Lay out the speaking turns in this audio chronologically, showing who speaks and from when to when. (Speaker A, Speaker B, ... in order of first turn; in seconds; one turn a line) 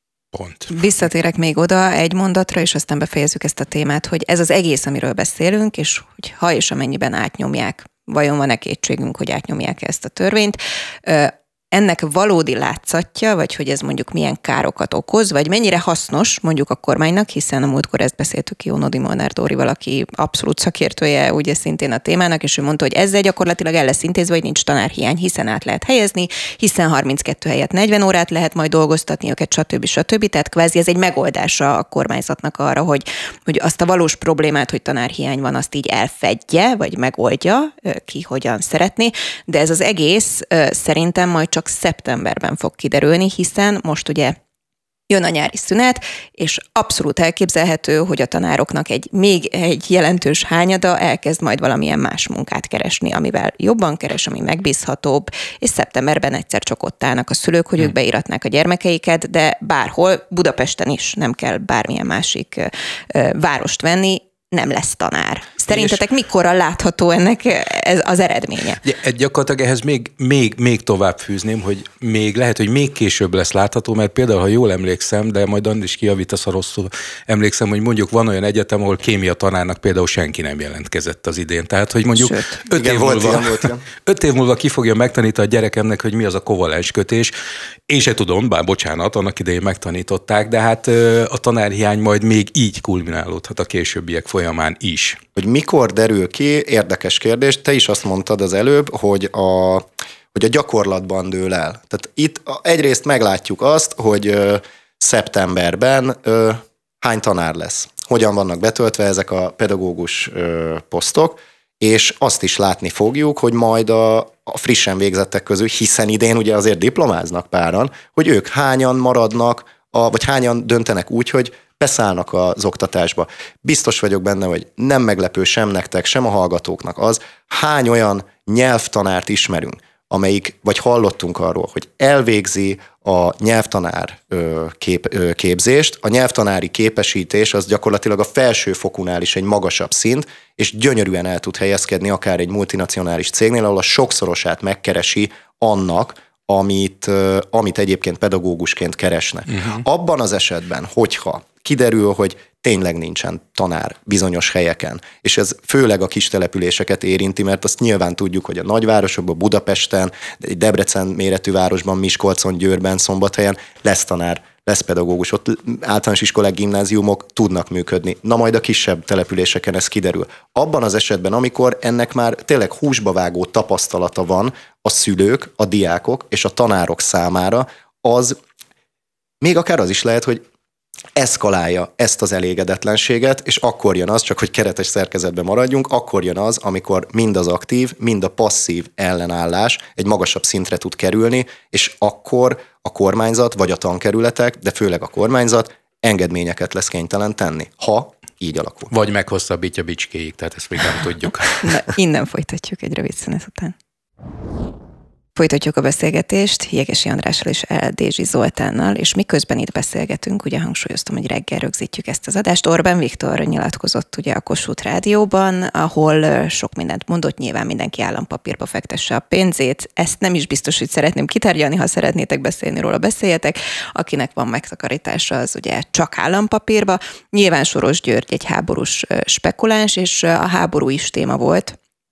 Speaker A: 0.3-0.7
Speaker B: 0.7-44.4
Speaker B: 45.1-68.8
Speaker A: 65.7-66.0
Speaker A: 68.8-87.3
Speaker B: 82.2-82.5
Speaker C: 82.7-83.8
Speaker A: 87.9-95.2
Speaker C: 95.3-178.3
Speaker A: 149.5-149.8
Speaker C: 179.4-180.4
Speaker C: 181.2-198.9
Speaker A: 198.9-201.6
Speaker B: 201.6-203.7
Speaker B: 205.3-231.8